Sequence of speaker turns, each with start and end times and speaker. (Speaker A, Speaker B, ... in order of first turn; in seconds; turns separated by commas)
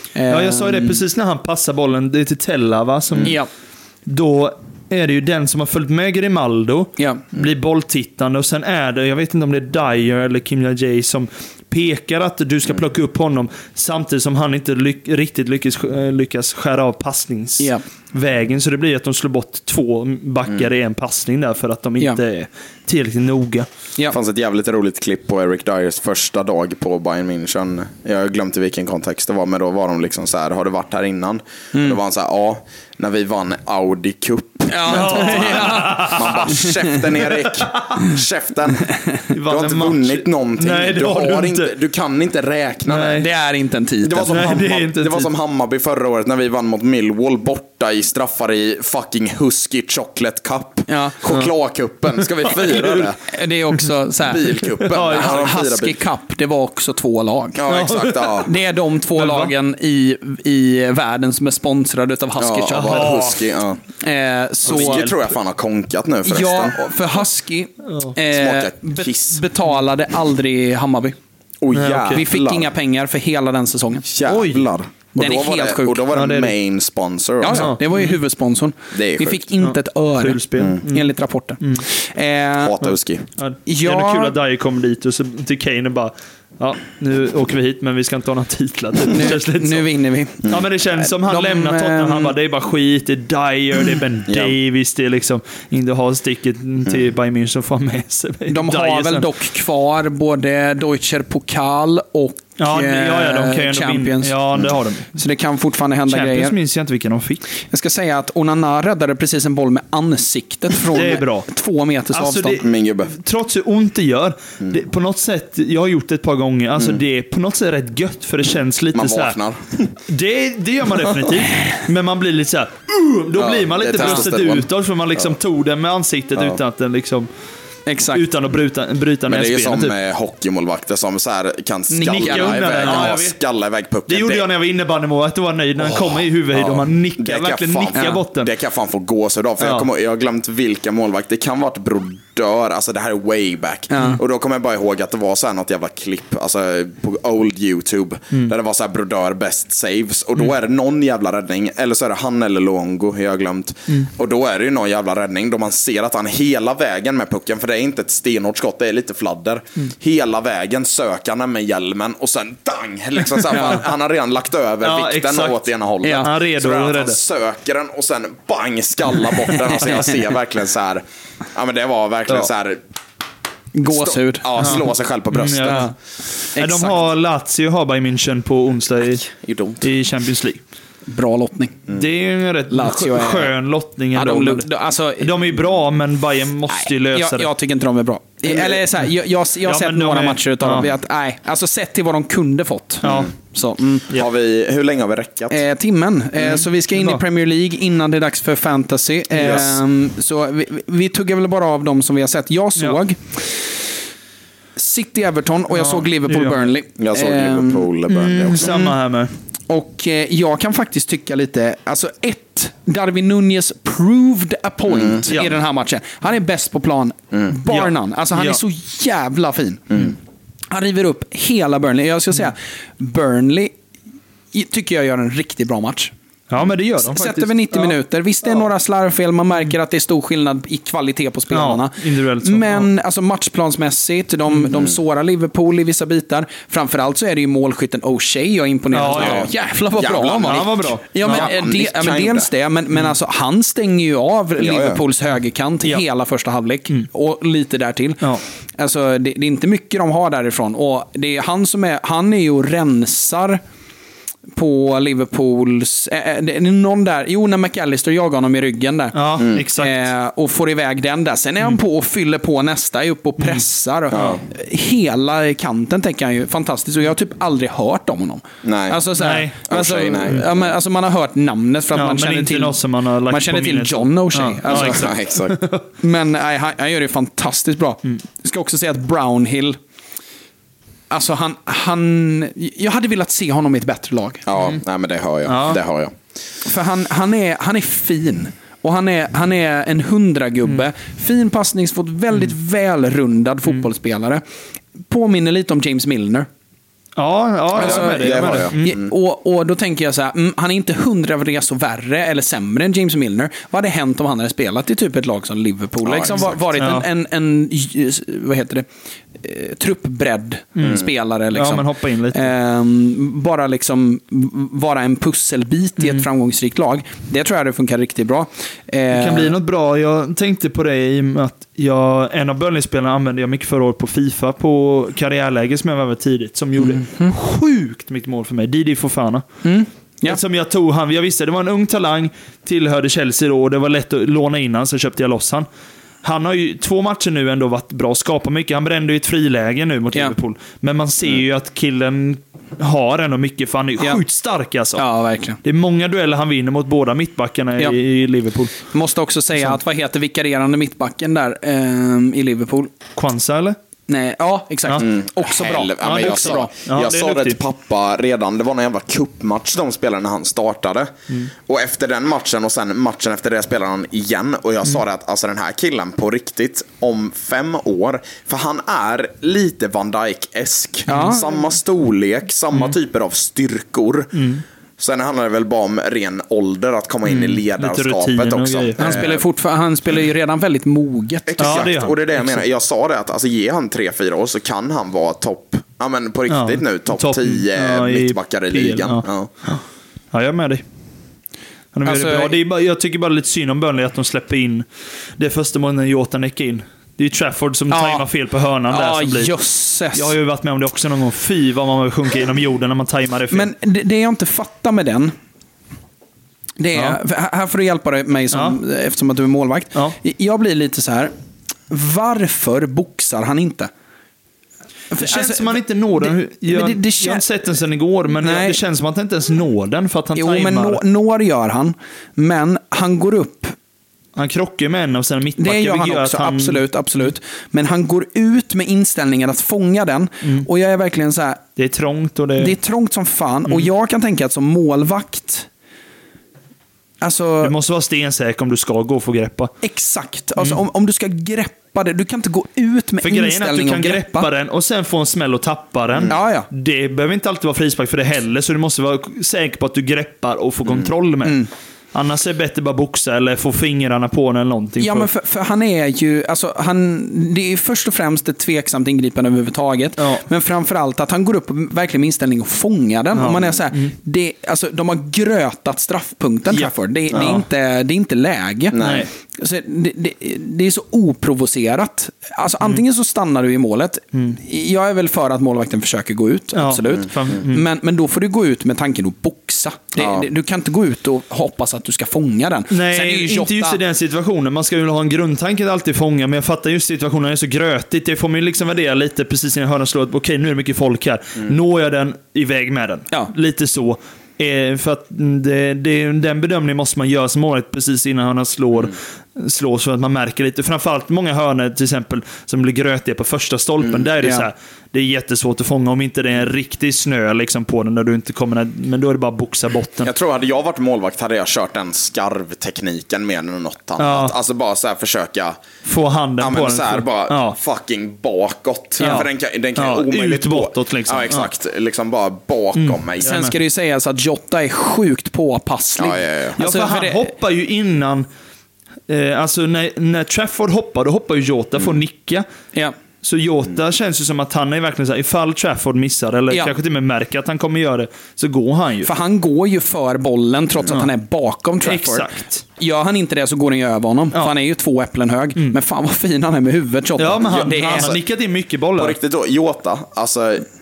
Speaker A: 0.1-1.0, Speaker B: 0.3-3.4, Speaker A: 3.2-3.5, Speaker B: 4.0-23.7, Speaker C: 24.1-43.2, Speaker A: 34.7-37.0, Speaker B: 34.9-36.5, Speaker B: 37.2-38.0, Speaker A: 38.9-39.2, Speaker B: 39.3-41.7, Speaker B: 42.9-43.3, Speaker A: 43.2-44.5, Speaker C: 44.0-53.2, Speaker B: 44.3-45.3, Speaker A: 50.9-51.2, Speaker B: 52.4-53.1, Speaker A: 53.2-57.6, Speaker C: 54.2-56.0, Speaker B: 54.9-55.5, Speaker C: 57.5-58.5, Speaker B: 57.7-58.4, Speaker A: 58.4-63.2, Speaker B: 59.1-59.5, Speaker C: 62.4-63.8, Speaker B: 62.7-63.4, Speaker A: 64.0-65.1, Speaker B: 64.7-65.2, Speaker C: 64.7-66.8, Speaker A: 66.2-71.2, Speaker B: 67.9-68.1, Speaker C: 68.3-69.4, Speaker C: 71.6-72.7, Speaker B: 71.7-72.2, Speaker A: 72.1-74.4, Speaker C: 74.1-77.7, Speaker B: 74.3-74.6, Speaker A: 75.1-76.1, Speaker B: 76.1-76.5, Speaker A: 77.4-82.7, Speaker B: 77.5-78.1, Speaker C: 78.9-79.5, Speaker B: 79.6-81.9, Speaker C: 82.6-83.3, Speaker B: 83.4-89.9, Speaker A: 83.7-84.4, Speaker A: 89.1-92.3, Speaker B: 90.4-99.2, Speaker C: 94.3-94.5, Speaker A: 98.5-104.3, Speaker B: 102.6-105.1, Speaker A: 105.1-106.5, Speaker B: 106.1-107.5, Speaker A: 107.7-112.6, Speaker B: 110.9-111.5, Speaker B: 112.1-119.4, Speaker C: 112.6-113.1, Speaker C: 118.9-119.9, Speaker B: 120.1-127.3, Speaker C: 123.3-125.3, Speaker C: 126.3-126.6, Speaker A: 127.9-128.3, Speaker B: 128.1-129.9, Speaker C: 129.3-134.5, Speaker A: 131.9-133.2, Speaker B: 132.1-133.4, Speaker B: 134.1-138.5, Speaker C: 135.8-172.8, Speaker A: 137.9-138.2, Speaker B: 139.6-139.9, Speaker A: 143.9-144.2, Speaker A: 163.5-163.8, Speaker B: 164.8-167.2, Speaker A: 166.0-166.3, Speaker A: 173.7-174.8, Speaker C: 173.9-175.9, Speaker B: 175.3-175.9, Speaker A: 175.7-175.9, Speaker A: 176.5-177.0, Speaker B: 176.5-180.6, Speaker C: 179.3-179.9, Speaker A: 181.1-181.8, Speaker B: 181.9-187.5, Speaker A: 182.7-183.5, Speaker A: 184.1-185.6, Speaker A: 186.7-194.1, Speaker B: 189.6-190.9, Speaker B: 193.0-193.3, Speaker C: 194.1-195.6, Speaker A: 195.5-203.9, Speaker B: 196.4-197.2, Speaker C: 199.4-199.7, Speaker A: 204.8-207.9, Speaker B: 205.7-206.7, Speaker C: 207.0-208.7, Speaker B: 208.1-209.3, Speaker A: 208.6-208.9, Speaker A: 209.7-220.1, Speaker C: 214.9-215.2, Speaker B: 215.3-215.6, Speaker B: 217.7-218.6, Speaker A: 220.7-223.7, Speaker A: 224.5-226.1, Speaker B: 226.5-227.9, Speaker A: 227.1-253.6, Speaker B: 231.5-232.9, Speaker B: 238.9-239.5, Speaker C: 239.2-242.5, Speaker B: 240.4-241.5, Speaker C: 244.6-245.0, Speaker A: 254.6-272.8, Speaker B: 259.1-260.1, Speaker C: 259.4-259.7, Speaker C: 264.1-264.4, Speaker C: 268.6-269.0, Speaker B: 269.1-269.6, Speaker C: 269.6-270.7, Speaker B: 271.9-275.9, Speaker A: 273.3-275.1, Speaker C: 274.7-275.6, Speaker A: 276.0-279.8, Speaker A: 281.1-284.5, Speaker C: 284.4-286.1, Speaker B: 285.5-285.8, Speaker A: 286.6-294.4, Speaker A: 295.0-296.5, Speaker B: 297.2-298.9, Speaker C: 297.7-299.1, Speaker A: 297.8-308.9, Speaker C: 306.0-306.6, Speaker B: 306.3-307.1, Speaker A: 309.4-319.5, Speaker B: 310.7-312.5, Speaker B: 316.0-316.2, Speaker B: 319.1-329.4, Speaker A: 326.8-327.3, Speaker A: 329.6-330.4, Speaker B: 330.2-335.6, Speaker B: 336.2-345.1, Speaker A: 345.0-345.6, Speaker B: 345.6-348.8, Speaker A: 348.9-352.9, Speaker B: 353.1-353.8, Speaker A: 354.1-356.7, Speaker C: 355.0-374.4, Speaker B: 356.1-357.6, Speaker A: 371.1-371.5, Speaker B: 374.3-374.6, Speaker C: 375.0-379.4, Speaker B: 377.2-379.4, Speaker A: 379.0-381.9, Speaker C: 381.5-389.5, Speaker B: 381.6-382.6, Speaker B: 386.5-389.8, Speaker B: 390.3-390.8, Speaker B: 391.9-399.5, Speaker A: 392.1-392.6, Speaker A: 397.9-398.2, Speaker A: 398.9-400.3, Speaker B: 400.1-403.7, Speaker A: 403.5-405.3, Speaker A: 406.8-411.3, Speaker B: 408.5-408.8, Speaker A: 411.9-413.9, Speaker A: 415.1-417.4, Speaker B: 415.2-421.0, Speaker A: 418.4-418.8, Speaker A: 420.4-423.7, Speaker B: 424.4-426.8, Speaker A: 425.6-431.6, Speaker B: 431.8-432.7, Speaker A: 432.6-435.7, Speaker A: 437.2-437.7, Speaker B: 437.6-439.7, Speaker A: 439.8-444.5, Speaker B: 443.2-455.3, Speaker A: 446.3-446.7, Speaker A: 455.0-469.1, Speaker B: 463.3-464.1, Speaker B: 466.7-467.6, Speaker C: 468.9-469.3, Speaker B: 469.0-469.3, Speaker A: 469.6-484.0, Speaker B: 476.7-477.8, Speaker C: 480.2-480.5, Speaker B: 482.9-510.3, Speaker C: 504.0-504.3, Speaker A: 504.4-504.7, Speaker C: 510.2-515.8, Speaker B: 514.2-514.5, Speaker B: 516.0-517.8, Speaker C: 516.6-523.6, Speaker B: 519.2-521.7, Speaker B: 523.0-523.7, Speaker A: 523.4-527.5, Speaker C: 526.1-526.8, Speaker B: 526.8-528.5, Speaker B: 529.3-532.6, Speaker B: 533.4-539.3, Speaker A: 536.7-537.0, Speaker A: 539.2-548.4, Speaker B: 542.0-542.8, Speaker B: 547.4-549.4, Speaker C: 549.1-550.9